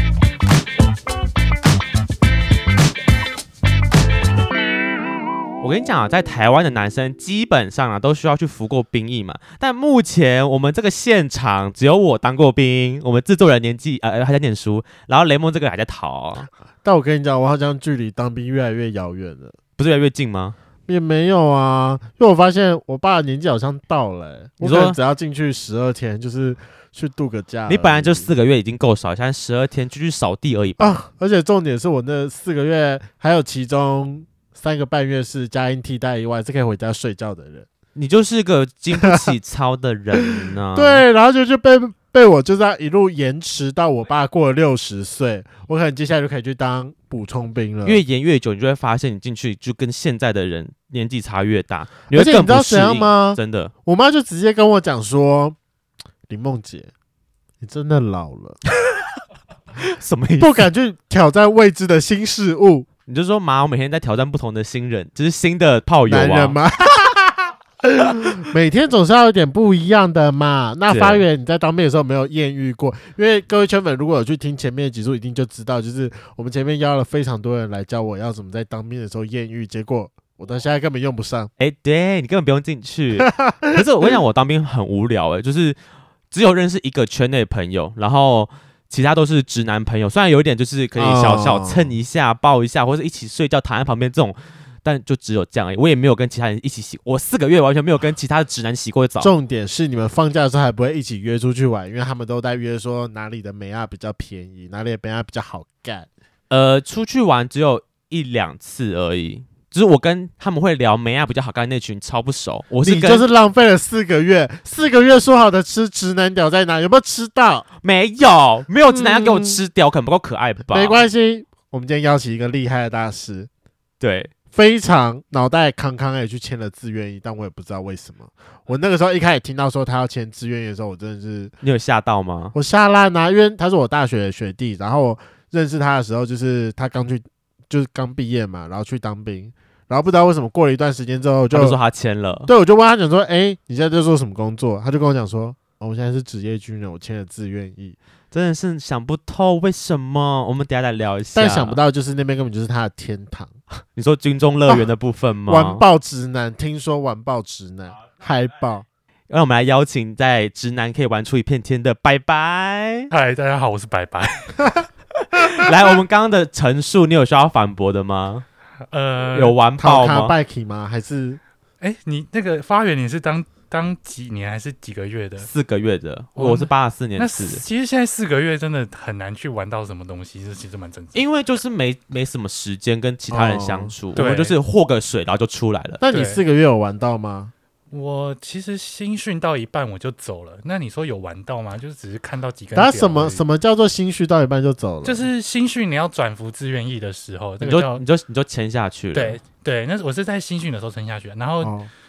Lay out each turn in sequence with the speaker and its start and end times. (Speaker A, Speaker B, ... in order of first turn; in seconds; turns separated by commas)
Speaker A: 5.6-16.5, Speaker B: 16.8-19.6, Speaker A: 19.8-20.6, Speaker B: 20.9-28.3, Speaker A: 24.6-25.0, Speaker A: 27.7-31.0, Speaker B: 30.8-37.7, Speaker A: 38.0-41.0, Speaker B: 38.9-39.3, Speaker B: 40.2-48.0, Speaker A: 47.8-53.7, Speaker B: 52.1-55.6, Speaker B: 56.3-56.9, Speaker B: 57.6-58.6, Speaker A: 59.8-60.7, Speaker B: 60.4-62.9, Speaker A: 63.1-66.6, Speaker B: 66.1-67.5, Speaker B: 68.1-81.5, Speaker A: 70.9-71.2, Speaker A: 81.6-85.8, Speaker B: 83.2-83.8, Speaker A: 86.3-99.3, Speaker B: 91.0-91.9, Speaker B: 99.2-106.1, Speaker A: 106.5-113.2, Speaker B: 112.8-117.7, Speaker A: 117.8-121.0, Speaker B: 118.9-119.6, Speaker B: 120.7-123.5, Speaker A: 124.0-124.3, Speaker B: 124.5-131.6, Speaker A: 131.6-132.5, Speaker B: 132.5-141.8, Speaker A: 141.5-142.5, Speaker B: 142.5-148.0, Speaker A: 148.3-151.8, Speaker B: 151.3-153.6, Speaker A: 153.9-155.8, Speaker B: 155.5-158.8, Speaker A: 159.3-163.1, Speaker C: 163.1-164.8, Speaker A: 165.3-168.4, Speaker C: 168.9-169.6, Speaker A: 169.3-170.3, Speaker B: 169.8-171.4, Speaker C: 171.8-175.5, Speaker A: 175.4-177.6, Speaker C: 176.3-181.2, Speaker A: 181.1-186.0, Speaker B: 183.3-183.9, Speaker C: 184.2-184.6, Speaker B: 186.0-187.5, Speaker C: 186.1-186.4, Speaker C: 187.9-193.4, Speaker B: 192.8-195.3, Speaker C: 195.0-198.0, Speaker A: 197.6-199.4, Speaker C: 199.1-201.8, Speaker B: 201.6-201.9